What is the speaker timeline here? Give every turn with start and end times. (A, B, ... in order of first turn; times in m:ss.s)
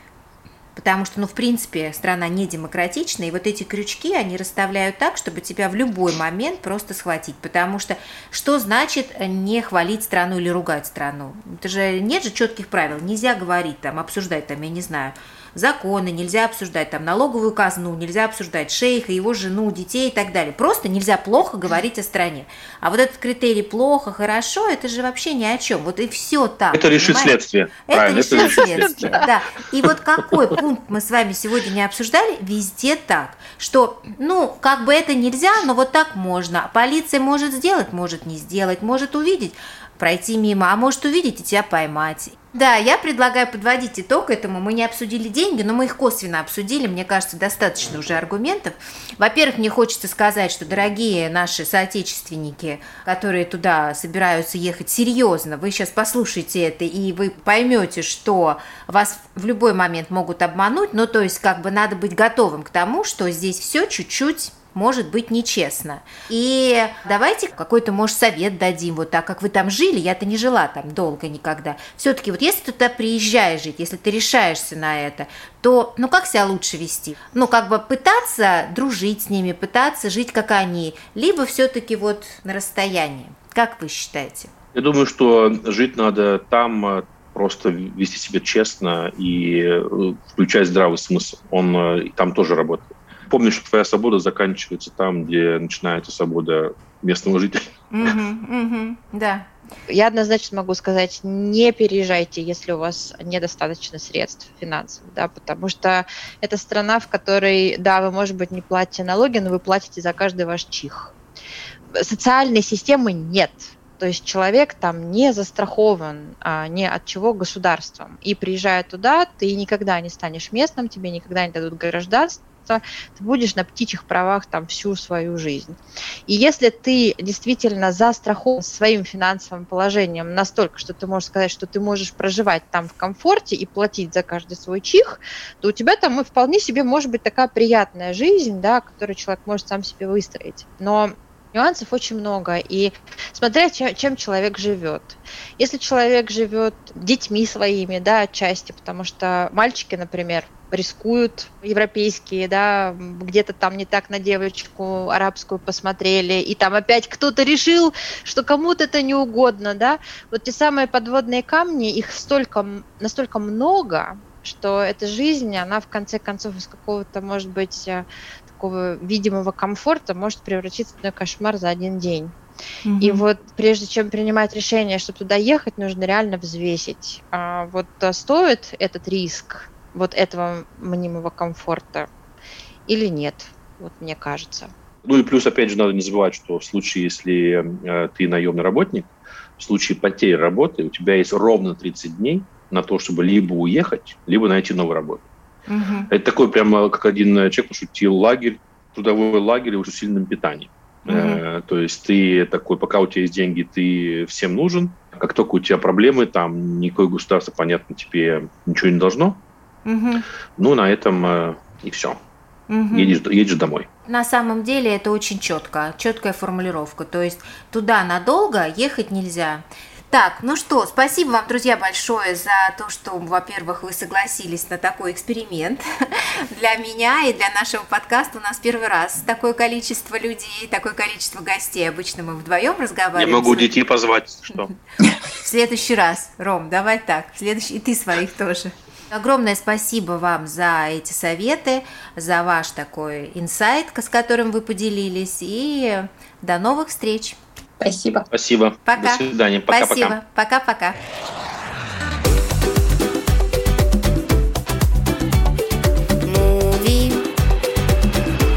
0:00.7-0:27.3 A
0:26.7-0:29.2 B
0:27.8-1:24.5 A
0:28.3-0:29.3 C
0:30.2-0:30.5 B
1:24.7-1:38.1 B
1:37.9-1:39.5 A
1:39.9-1:51.1 C
1:51.9-2:52.4 C
2:52.8-2:53.2 A
2:53.0-3:02.1 C
3:02.9-3:04.7 C
3:05.0-3:15.3 B
3:15.7-3:16.1 A
3:16.1-3:29.4 B
3:21.1-3:21.4 A
3:29.8-3:30.2 A
3:30.6-3:32.2 B
3:32.7-3:33.2 A
3:32.9-3:33.9 B
3:34.1-3:45.8 A
3:46.5-3:53.7 A
3:53.2-3:54.7 B
3:55.3-4:08.1 A
4:08.2-4:10.2 B
4:08.8-4:11.0 A
4:16.3-4:17.2 A